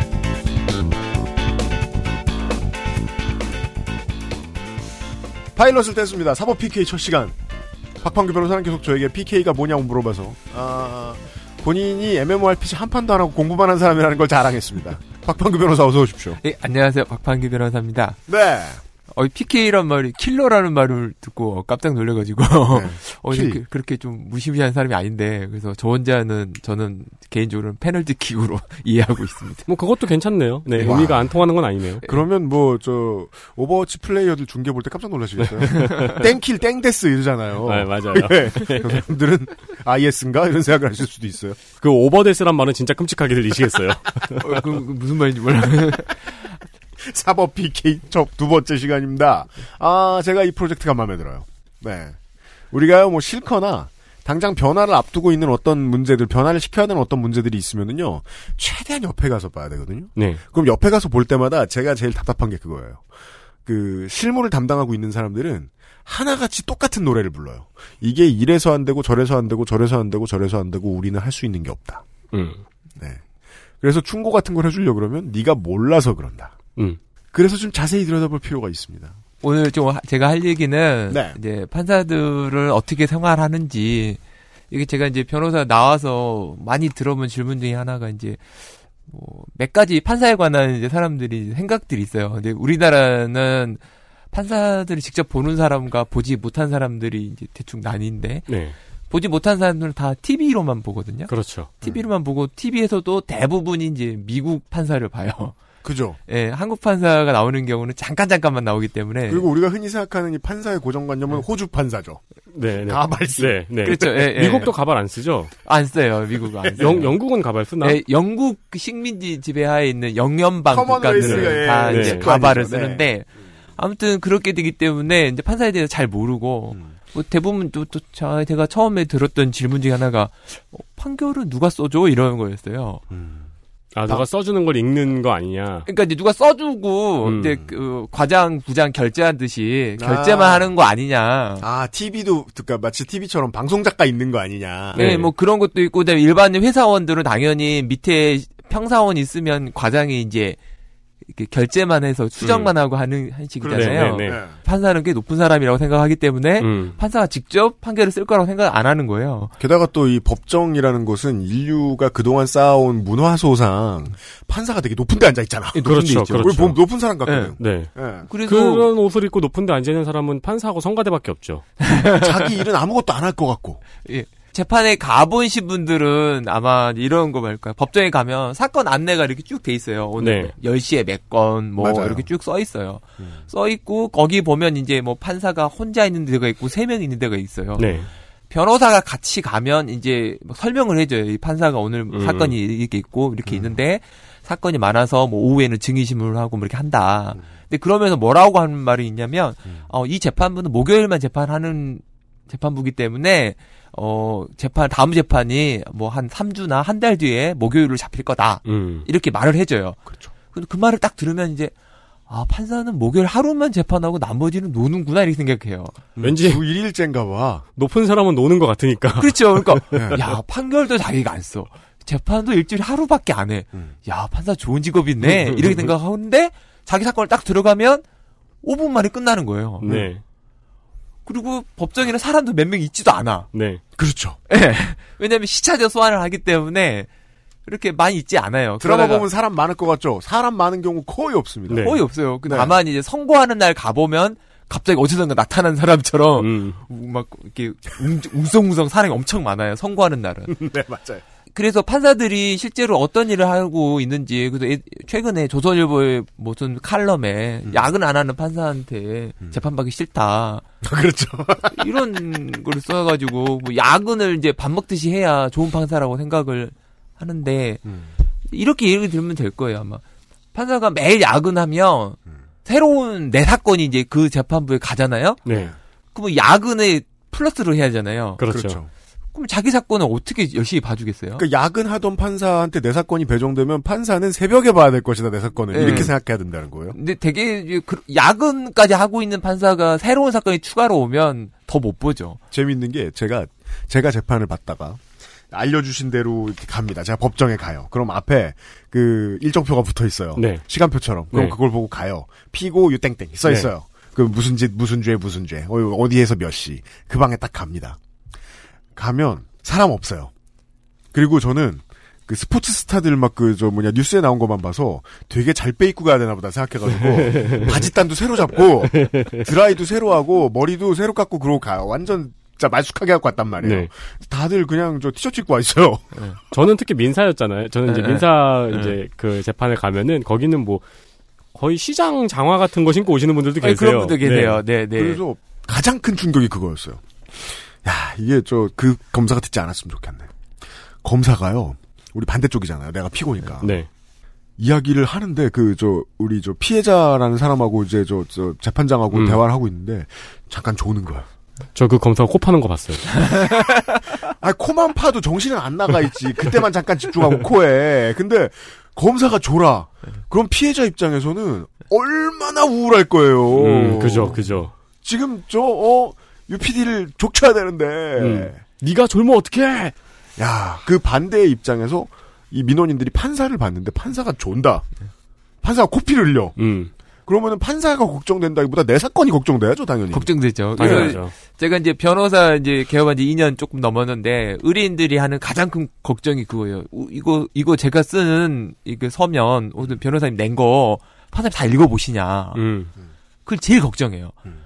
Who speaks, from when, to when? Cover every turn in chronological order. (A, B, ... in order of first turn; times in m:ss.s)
0:05.6-0:07.4 A
0:08.0-0:16.4 A
0:16.4-0:18.2 B
0:18.3-0:18.8 A
0:19.1-0:29.7 B
0:22.7-0:23.6 A
0:29.7-0:32.0 C
0:30.8-0:31.3 A
0:32.0-0:41.6 A
0:35.6-0:36.2 C
0:35.8-0:36.2 B
0:37.7-0:39.0 C
0:41.8-0:44.4 C
0:44.4-0:46.3 B
0:47.0-0:52.2 A
0:52.7-1:03.1 A
1:00.2-1:00.4 C
1:03.6-1:12.0 A
1:12.3-1:12.6 C
1:13.0-1:13.2 A
1:13.8-1:16.6 A
1:17.3-1:19.2 A
1:19.4-1:24.2 B
1:21.1-1:21.4 A
1:24.7-1:28.4 B
1:29.1-1:33.8 B
1:34.3-1:38.5 B
1:38.5-1:38.8 C
1:39.1-1:41.3 B
1:41.3-1:41.7 C
1:41.8-1:45.6 B
1:45.8-1:46.2 A
1:46.3-1:49.5 B
1:49.3-1:52.2 A
1:52.5-1:55.5 C
1:52.8-1:54.1 A
1:53.8-1:54.7 B
1:55.6-1:57.1 B
1:56.8-1:58.0 C
1:57.8-2:13.0 B
2:00.7-2:03.1 A
2:01.2-2:02.3 C
2:13.1-2:13.5 A
2:14.0-2:15.9 C
2:15.9-2:21.7 B
2:17.2-2:17.6 C
2:20.0-2:20.7 A
2:21.6-2:25.1 A
2:25.0-2:25.3 C
2:25.0-2:30.6 B
2:31.3-2:39.5 B
2:32.4-2:32.7 C
2:33.6-2:34.6 A
2:33.7-2:34.4 C
2:36.6-2:37.0 C
2:39.6-2:48.3 A
2:45.7-2:46.7 B
2:45.8-2:46.8 C
2:47.3-2:47.6 B
2:47.6-2:47.9 C
2:48.3-2:48.9 B
2:48.4-2:51.6 C
2:51.8-2:52.5 B
2:52.0-2:53.8 A
2:54.0-3:31.7 B
3:00.2-3:00.5 C
3:01.8-3:02.3 A
3:07.8-3:08.1 C
3:12.1-3:12.6 C
3:13.5-3:13.8 A
3:28.7-3:29.1 C
3:32.3-3:36.0 B
3:36.2-3:37.7 A
3:36.2-3:36.6 C
3:37.8-3:40.3 C
3:39.2-3:48.0 B
3:39.9-3:40.2 A
3:45.2-3:45.8 C
3:48.6-3:49.9 B
3:49.8-3:50.2 C
3:51.3-3:53.5 B
3:53.5-3:53.8 C
3:54.0-3:54.4 A
3:54.5-3:57.1 B
3:57.7-3:59.3 B
3:58.8-4:02.8 A
4:01.7-4:02.0 C
4:01.8-4:10.6 B
4:06.4-4:06.8 C
4:10.5-4:11.2 A
4:11.5-4:20.6 B
4:20.8-4:21.9 A
4:21.7-4:27.8 B
4:27.9-4:28.1 A
4:28.5-4:30.0 B
4:30.5-4:35.5 B
4:35.5-4:35.7 C
4:35.5-4:35.8 A
4:36.1-4:38.4 B
4:38.4-4:38.8 C
4:38.5-4:38.9 A
4:39.3-4:41.5 B
4:41.4-4:47.0 A
4:45.7-4:46.1 B
4:45.8-4:46.1 C
4:46.9-4:52.4 B
4:52.5-5:08.0 A
5:00.4-5:00.6 C
5:01.3-5:01.6 C
5:09.0-5:10.3 A
5:11.1-5:26.1 A
5:17.0-5:17.9 C
5:18.9-5:19.5 C
5:23.6-5:23.9 C
5:26.5-5:30.8 C
5:27.9-5:29.0 B
5:31.6-5:34.6 C
5:33.6-5:35.2 B
5:35.0-5:40.3 A
5:41.0-5:43.8 A
5:43.6-5:43.9 C
5:44.6-5:51.3 A
5:49.1-5:49.4 C
5:51.8-5:53.2 C
5:54.4-6:04.5 A
6:03.6-6:04.7 C
6:05.0-6:08.6 A
6:08.2-6:10.0 C
6:10.4-6:14.9 A
6:15.6-6:16.6 A
6:16.6-6:16.9 C
6:17.3-6:21.2 A
6:20.1-6:32.6 B
6:20.8-6:21.3 C
6:32.6-6:32.9 C
6:33.5-6:34.4 B